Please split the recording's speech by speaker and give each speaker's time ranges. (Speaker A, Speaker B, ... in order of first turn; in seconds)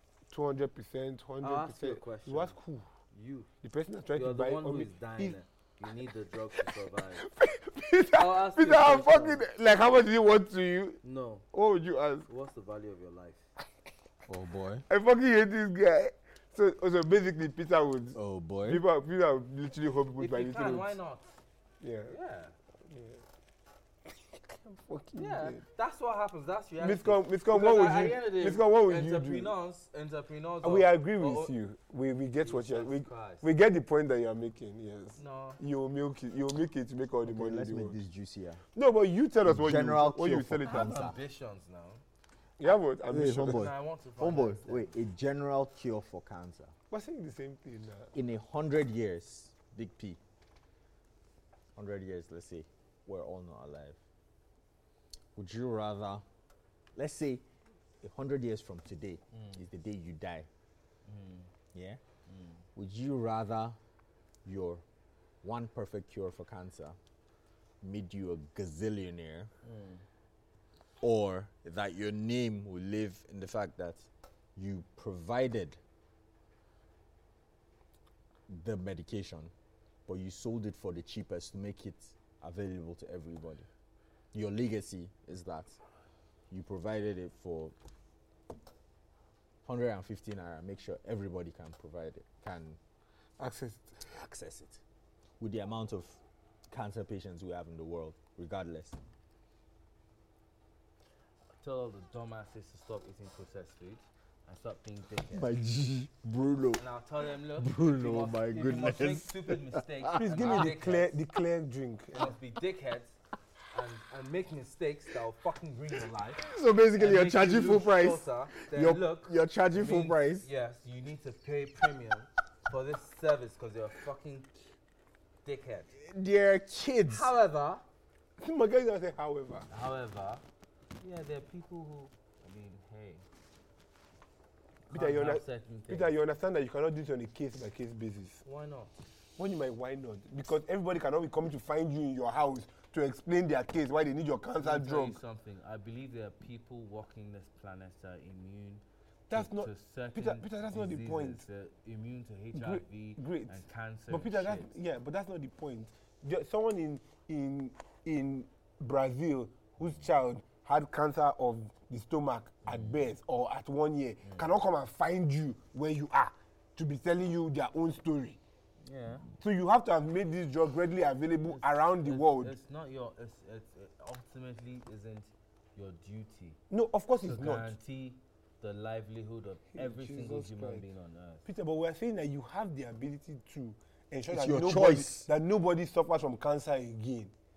Speaker A: 0.3-2.9, 3.6-5.4, 7.2-11.0, 11.5-12.3, 14.9-21.0, 21.8-22.1, 22.9-23.2, 24.4-25.6, 26.8-29.5, 30.6-38.0, 38.8-41.1, 42.6-43.7, 46.9-48.1, 93.4-94.0, 110.1-112.4, 128.4-129.7, 134.9-138.4, 139.4-145.2, 149.3-151.4, 152.5-168.4, 169.4-172.6, 176.7-177.7, 179.8-180.8, 181.4-187.3
Speaker B: 1.4-2.6, 3.1-3.5, 4.1-7.3, 8.1-9.4, 11.0-11.5, 12.3-13.5, 20.2-21.4, 22.1-22.6, 25.2-31.5, 32.4-33.5, 35.2-35.6, 40.7-42.0, 43.4-45.0, 59.3-59.6, 61.1-61.5, 62.3-62.6, 69.6-70.0, 101.6-105.5, 106.8-111.2, 112.1-113.2, 113.7-124.5, 125.4-125.9, 127.1-127.8, 129.7-130.4, 131.0-133.2, 134.9-136.1, 138.4-138.9, 144.6-154.7, 162.7-163.1, 164.2-164.5, 168.8-169.3, 171.4-176.6, 177.2-181.5
Speaker C: 14.3-14.8, 18.1-18.8, 37.2-38.6, 39.4-41.2, 43.1-46.7, 48.1-50.2, 51.8-54.0, 55.4-56.2, 57.0-57.5, 58.0-60.5, 61.7-62.0, 62.8-63.8, 64.5-64.8, 65.4-67.0, 67.8-69.5, 71.0-75.8, 78.5-79.5, 80.1-83.7, 84.3-85.8, 86.5-87.7, 89.7-92.8, 94.0-94.8, 95.4-99.0, 105.3-106.8, 107.6-110.7, 116.4-120.5, 125.9-127.3, 184.3-185.3